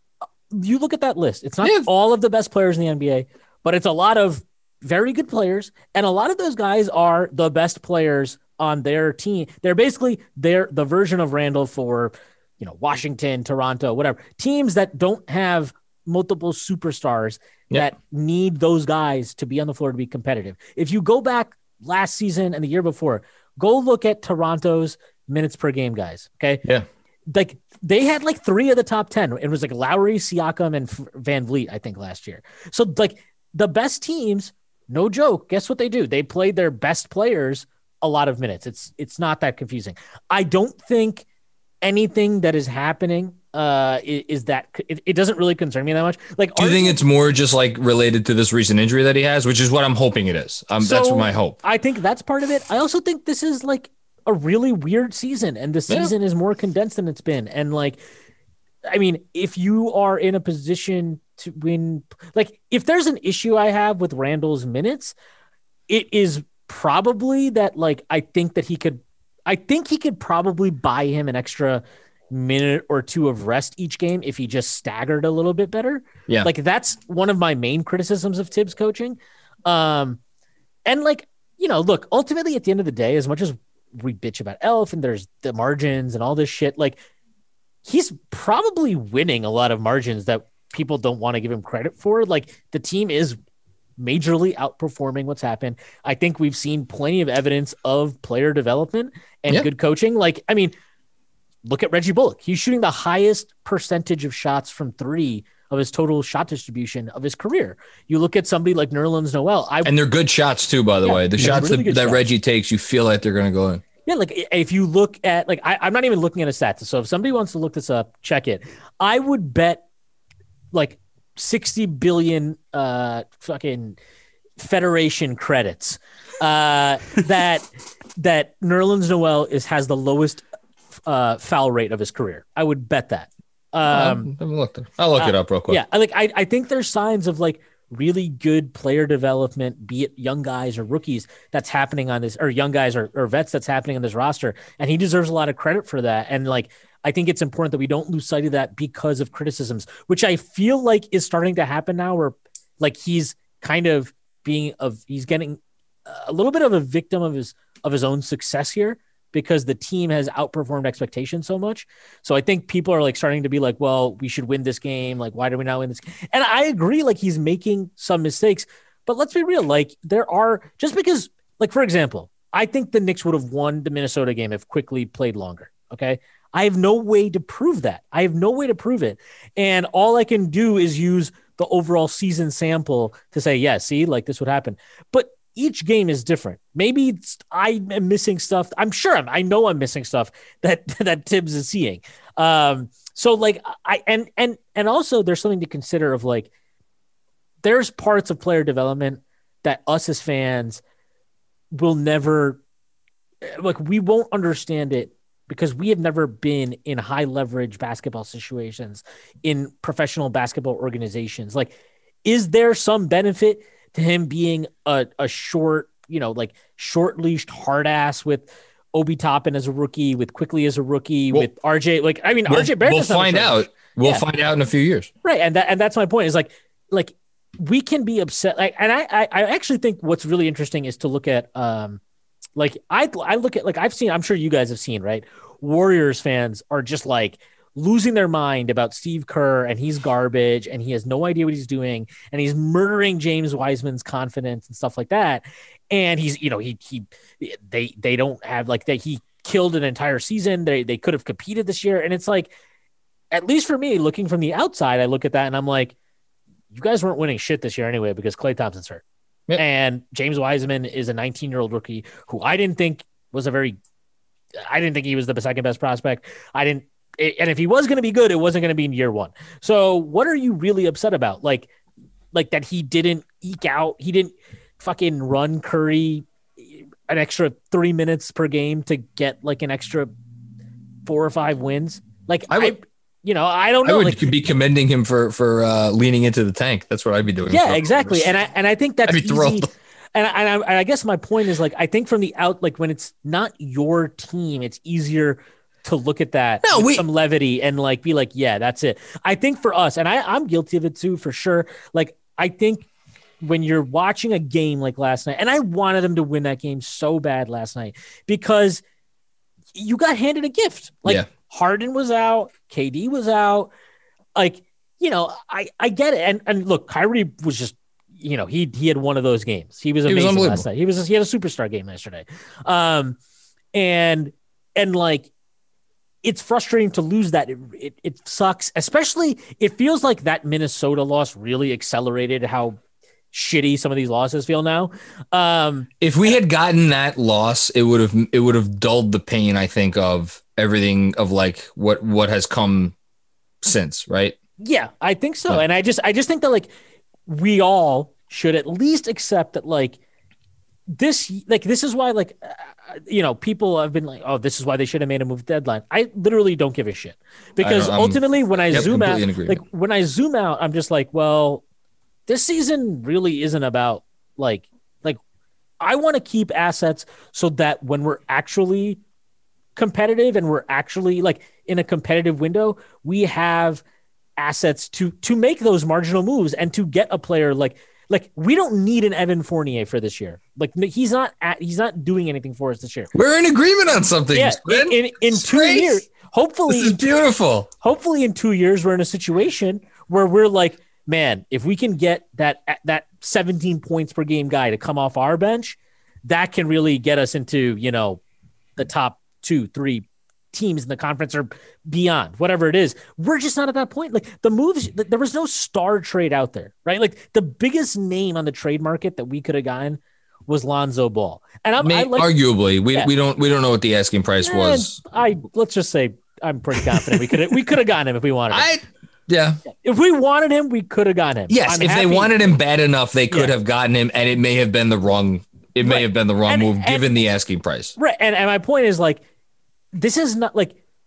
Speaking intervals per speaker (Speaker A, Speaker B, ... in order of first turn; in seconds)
Speaker A: 0.5-26.6, 27.3-41.2, 41.8-47.0, 50.8-58.0, 58.9-65.2, 65.9-80.2, 80.8-87.0, 87.8-93.4, 94.0-100.7, 101.6-109.9, 111.0-112.3, 114.0-119.8, 120.7-124.0, 124.6-130.4, 131.1-134.3, 135.2-196.5, 197.6-200.8, 201.7-202.6, 203.4-224.2, 225.2-232.0, 232.6-252.5, 253.3-255.9, 256.7-259.0, 259.6-263.8, 264.7-271.7, 272.3-280.1, 281.0-284.2, 287.5-302.9, 303.4-308.8, 309.7-313.7, 314.4-323.2, 323.7-325.3, 326.2-332.8, 333.3-335.9, 344.6-346.7, 347.3-350.0, 350.9-361.6, 362.3-365.2, 365.8-369.0, 369.8-373.8, 374.4-383.1, 384.3-387.0, 387.8-398.2, 398.8-412.3, 414.4-418.7, 419.7-422.6, 425.8-427.1, 428.0-429.2, 429.9-430.8
Speaker B: 46.6-51.6, 109.8-113.8, 133.9-135.8, 222.5-225.1, 283.8-288.3, 289.1-289.7, 296.6-297.0, 320.1-320.6, 336.0-342.9, 343.6-344.4, 357.6-358.2, 358.7-359.6, 383.1-386.0, 386.7-387.7, 411.8-415.0, 418.5-419.6, 421.5-427.9